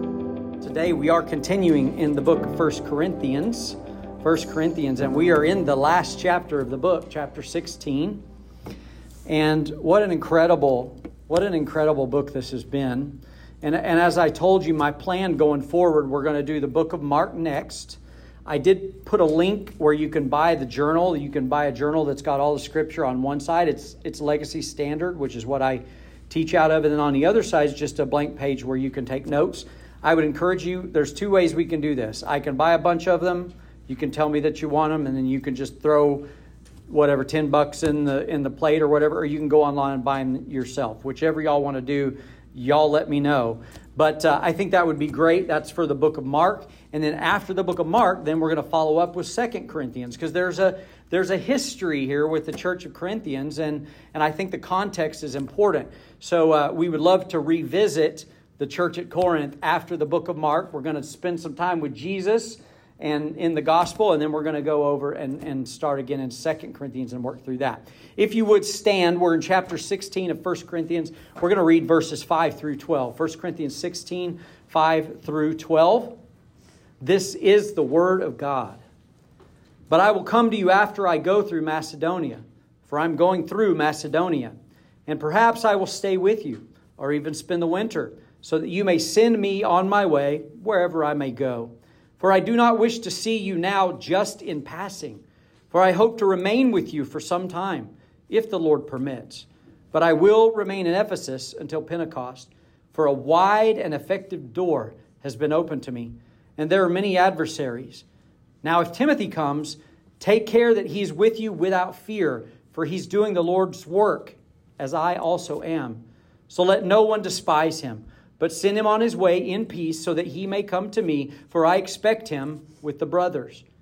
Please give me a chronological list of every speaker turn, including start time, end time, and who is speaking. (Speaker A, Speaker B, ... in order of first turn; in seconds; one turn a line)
Speaker A: 0.6-8.2
Speaker A: 9.3-36.2
Speaker A: 36.9-76.2
Speaker A: 77.0-78.8
Speaker A: 79.9-84.5
Speaker A: 85.1-108.0
Speaker A: 108.6-123.7